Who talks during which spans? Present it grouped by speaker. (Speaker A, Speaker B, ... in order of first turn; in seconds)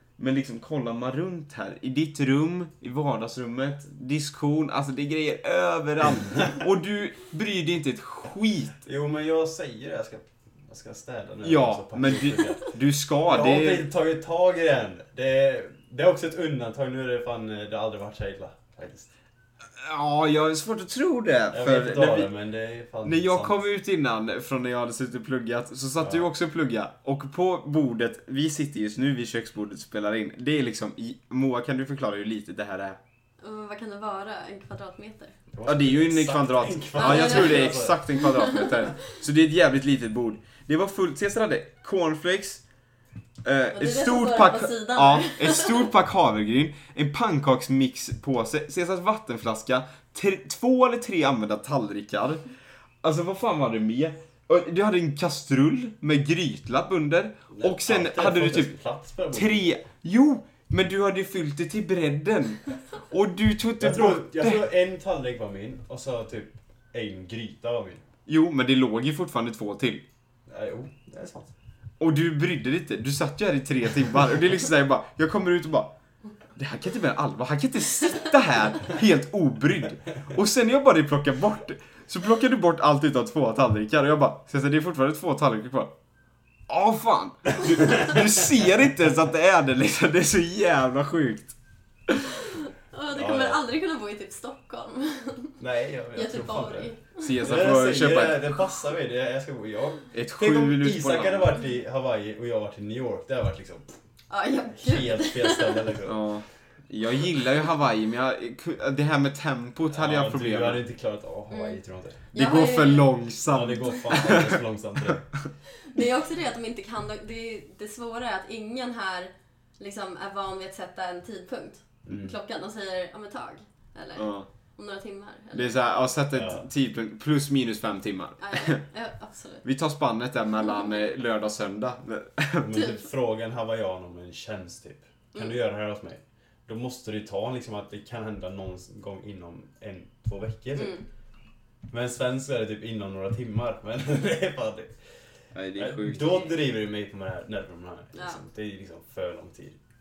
Speaker A: 0.2-8.8, 11.4-13.9, 19.8-22.3, 23.0-33.0, 35.7-42.6, 43.4-52.5, 53.0-58.7, 59.3-64.7, 68.3-70.0, 72.0-75.9, 76.5-85.9, 86.7-91.5, 92.1-92.5, 97.2-98.6, 100.1-101.6, 106.0-110.8, 112.3-115.5, 124.2-124.5, 125.5-128.8, 129.7-132.7, 145.6-146.5
Speaker B: 8.8-19.1, 21.5-23.6, 26.0-26.3, 35.5-38.2, 57.5-59.7, 63.8-68.0, 70.5-71.5, 87.8-88.2, 93.1-93.6, 95.6-103.9, 104.7-106.3, 109.9-112.3, 113.5-115.3, 122.1-122.3, 126.3-126.7, 132.6-141.0, 141.9-144.9, 145.8-149.8
Speaker C: 33.4-35.4, 37.0-38.9, 43.7-45.9, 92.9-95.6, 96.1-97.4, 104.3-105.9, 111.5-111.8, 112.3-113.2, 115.8-125.8, 128.4-129.7, 132.7-133.1, 140.8-141.1, 146.2-146.4, 148.1-148.4